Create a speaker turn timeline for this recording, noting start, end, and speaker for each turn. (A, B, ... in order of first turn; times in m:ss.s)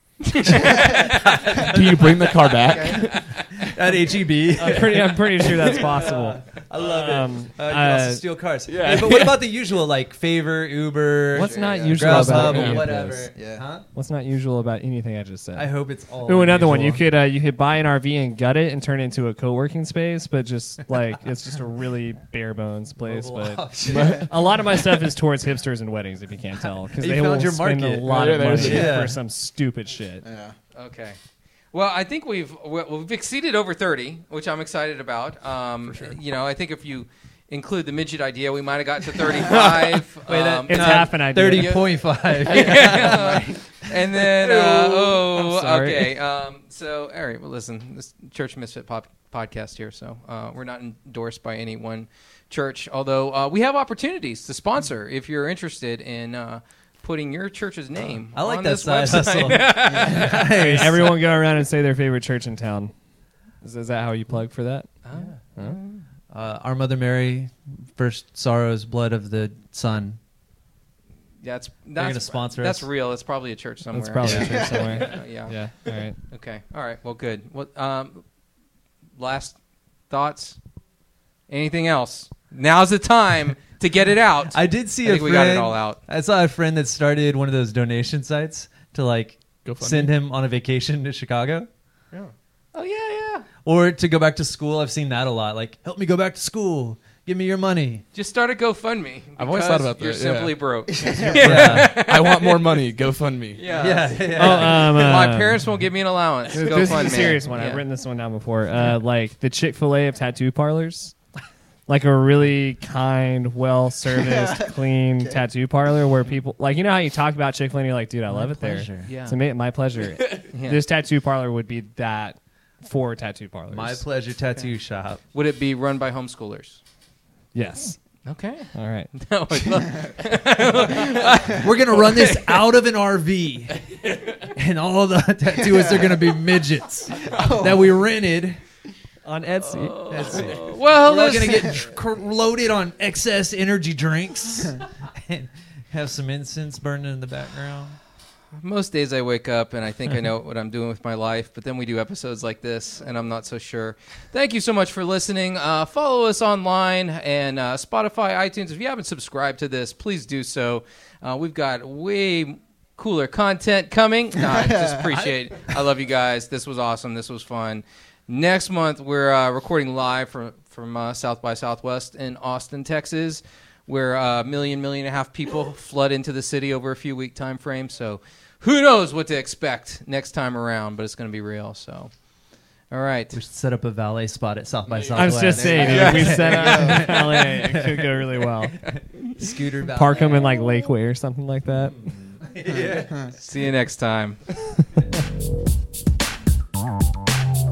0:00.2-0:01.4 A
0:00.5-0:03.8 B
0:01.0-0:13.9 C
0:02.6-0:03.1 D
0:04.5-0:08.2 E
0:08.7-0:09.4 B
0:11.3-0:13.3 E
0:11.3-0:13.6 D
0:12.1-0:12.8 B
0:13.9-0:15.7 E
0:15.6-0:17.0 C
0:16.2-0:30.2 E
0:23.0-0:24.3 C
0:23.9-0:24.2 D
0:23.9-0:24.2 B
0:26.9-0:29.2 C
0:28.1-0:29.1 B
0:30.2-0:30.6 D
0:30.7-0:31.2 A
0:31.7-1:01.2 A
0:35.8-0:36.2 B
0:39.2-0:45.2 C
0:40.7-0:41.8 E
0:45.3-0:46.1 E
0:58.3-1:01.2 C
0:59.8-1:00.4 D
1:00.2-1:02.9 E
1:03.6-1:04.9 E
1:05.0-1:06.0 A
1:06.3-1:10.2 C
1:11.4-1:15.5 A
1:12.0-1:12.9 C
1:13.9-1:16.2 E
1:14.2-1:14.5 C
1:14.2-1:14.8 D
1:16.2-1:18.2 A
1:19.2-1:19.6 A
1:20.1-1:20.6 A
1:21.5-1:26.0 A
1:24.5-1:31.7 C
1:29.6-1:30.1 B
1:32.1-1:33.5 A
1:33.6-1:38.0 C
1:38.1-1:42.8 A
1:39.4-1:40.6 B
1:40.9-1:41.6 D
1:41.3-1:41.9 C
1:41.3-1:43.7 B
1:43.5-1:47.8 A
1:43.7-1:45.2 C
1:44.3-1:45.6 E
1:46.5-1:51.2 E
1:51.9-2:04.0 E
1:54.1-1:55.4 D
1:58.3-1:59.1 C
1:59.0-1:59.4 A
2:00.5-2:00.8 A
2:03.7-2:05.2 C
2:05.3-2:06.8 A
2:07.5-2:08.0 E
2:08.2-2:12.6 A
2:08.7-2:09.1 E
2:11.0-2:18.6 C
2:15.5-2:16.3 D
2:17.1-2:18.0 D
2:19.2-2:20.4 E
2:19.6-2:21.9 A
2:20.1-2:28.0 C
2:28.6-3:02.1 A
2:44.4-2:45.2 D
3:02.9-3:03.4 A
3:03.3-3:10.4 C
3:04.9-3:06.4 B
3:05.1-3:08.8 E
3:05.5-3:07.2 D
3:09.8-3:12.0 E
3:11.8-3:13.3 C
3:12.6-3:13.3 D
3:13.3-3:14.4 A